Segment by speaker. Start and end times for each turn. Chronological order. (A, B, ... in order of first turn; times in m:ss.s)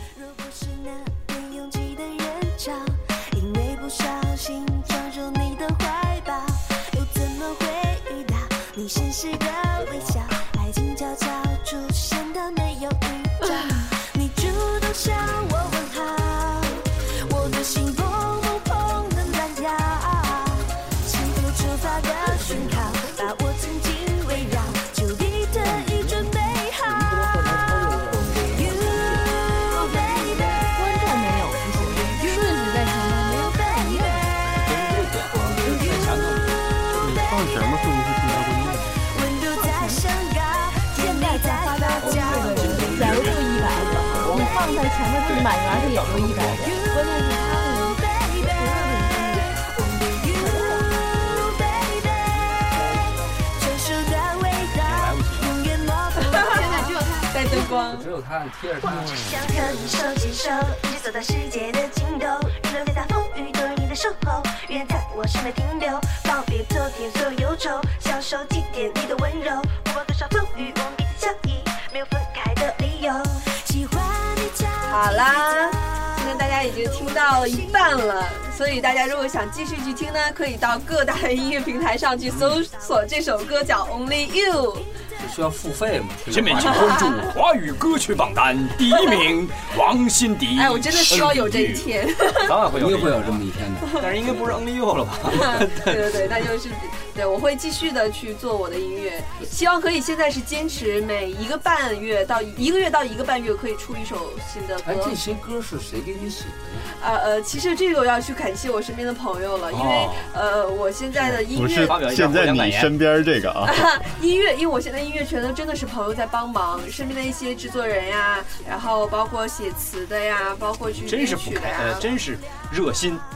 0:00.1-0:27.3 A
0:09.8-0:10.1 B
0:27.5-0:29.0 B
0:28.4-0:30.7 A
0:29.7-0:34.3 C
0:32.0-0:32.5 A
0:33.4-0:36.3 A
0:34.6-0:37.4 D
0:37.0-0:38.9 E
0:37.2-0:37.6 A
0:38.9-0:42.9 A
0:39.5-0:40.1 C
0:40.9-0:49.5 C
0:42.0-0:44.6 D
0:42.3-0:43.2 B
0:43.8-0:44.6 A
0:45.2-0:46.7 D
0:46.5-0:57.7 A
0:54.8-0:55.5 D
0:56.2-0:58.1 F
0:57.8-0:59.2 B
0:58.8-1:17.9 A
1:14.8-1:24.9 F
1:25.2-1:27.3 B
1:26.3-1:33.4 D
1:30.6-1:32.5 F
1:32.7-1:34.5 B
1:34.0-1:36.2 D
1:35.3-1:45.2 F
1:44.8-1:46.9 B
1:46.9-1:52.0 F
1:49.7-1:50.3 D
1:51.5-1:53.9 E
1:51.8-1:53.0 D
1:53.6-2:02.1 F
2:01.0-2:03.2 D